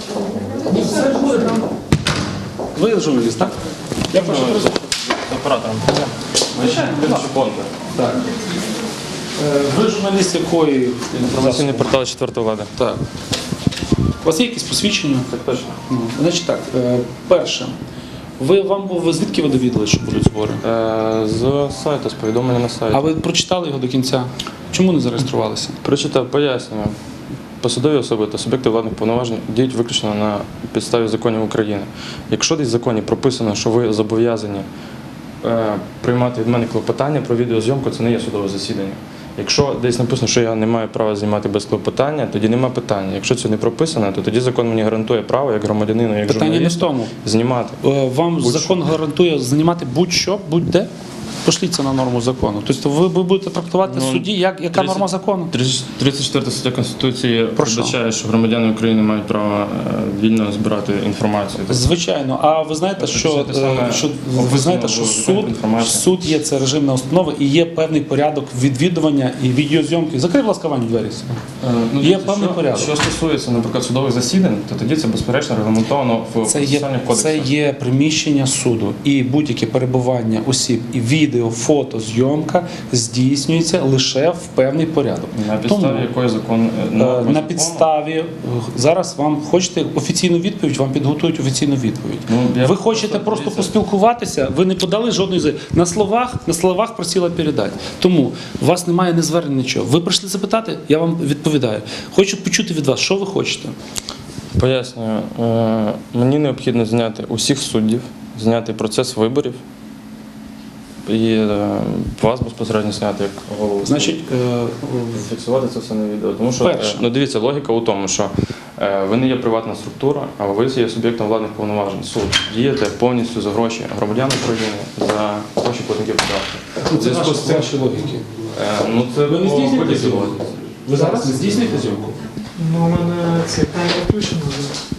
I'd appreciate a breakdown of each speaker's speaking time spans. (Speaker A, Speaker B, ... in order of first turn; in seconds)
Speaker A: 0.7-1.5, 2.8-3.6, 4.1-4.9, 6.6-7.0, 7.9-8.3, 9.4-12.0, 12.8-13.0, 14.2-15.3, 15.9-17.8, 18.4-20.6, 22.9-25.8, 46.3-47.1, 47.8-50.9, 51.5-55.5, 57.6-58.0, 61.7-71.4, 72.0-72.9, 76.5-86.1, 87.0-103.8, 113.8-115.3, 116.6-117.1, 126.8-128.6, 129.3-132.2
Speaker B: 4.1-7.7, 11.1-12.7, 15.3-15.8, 20.6-23.0, 25.8-26.9, 27.6-34.7, 35.4-47.8, 48.4-48.8, 53.9-61.9, 63.0-66.0, 71.6-77.5, 85.3-87.9, 92.3-93.7, 104.5-109.6, 111.1-114.2, 115.1-127.8, 128.5-132.0
Speaker C: 132.6-134.7